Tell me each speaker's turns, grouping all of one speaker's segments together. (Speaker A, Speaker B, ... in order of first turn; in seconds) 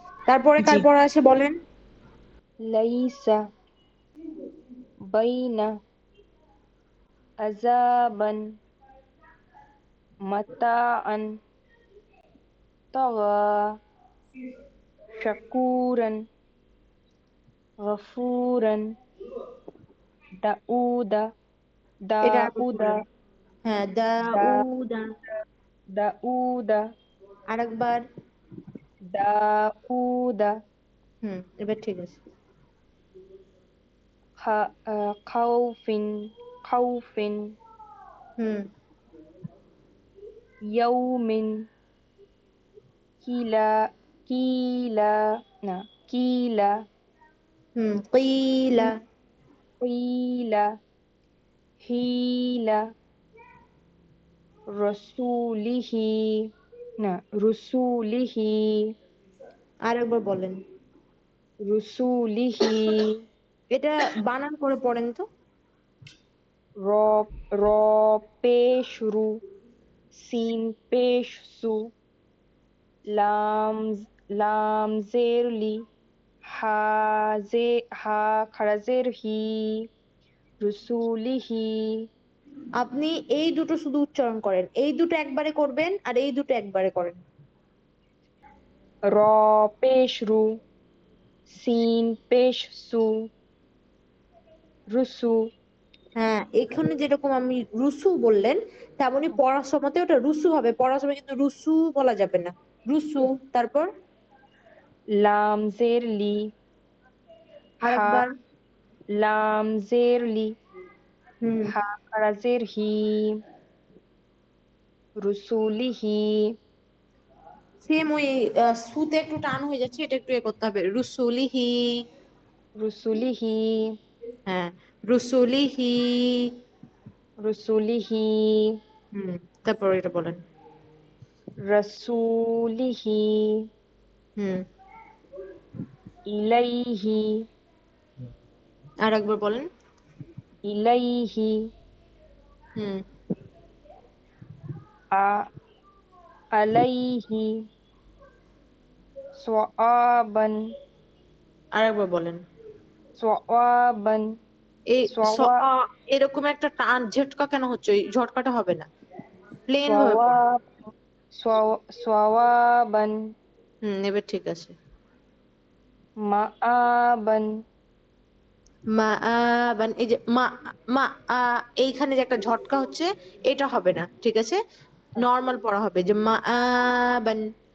Speaker A: 0.3-1.6, 22.2-23.0, 23.6-25.1, 27.5-28.0, 31.2-32.2, 38.4-38.7, 47.8-49.0, 59.9-60.6, 63.7-65.2, 82.8-87.2, 96.2-103.9, 107.8-108.3, 111.4-111.7, 117.8-121.8, 124.5-126.5, 129.1-130.4, 134.4-134.6, 139.0-139.7, 142.8-143.0, 151.8-152.4, 154.9-158.9, 159.7-160.3, 163.8-164.7, 168.9-174.6, 175.2-177.4
Speaker B: 2.7-3.4, 5.1-5.7, 7.5-8.6, 10.3-11.4, 12.9-13.8, 15.2-16.2, 17.8-18.9, 20.4-21.3, 22.1-22.9, 25.9-26.9, 29.1-30.6, 34.4-37.5, 40.7-41.5, 43.2-46.8, 49.8-50.7, 51.8-52.8, 54.8-56.5, 57.0-58.9, 61.7-63.1, 66.8-69.4, 70.1-71.9, 73.1-75.8, 76.5-79.7, 80.6-81.7, 89.2-90.5, 91.5-93.1, 94.9-95.4, 105.2-106.5, 107.8-108.2, 109.2-110.5, 111.7-113.3, 115.2-116.5, 122.8-123.8, 127.4-128.7, 131.7-133.6, 136.3-137.4, 140.7-141.6, 145.2-145.4, 146.6-147.5, 149.4-150.6, 153.2-154.3, 155.1-155.6, 159.9-160.7, 161.4-163.2, 166.3-167.5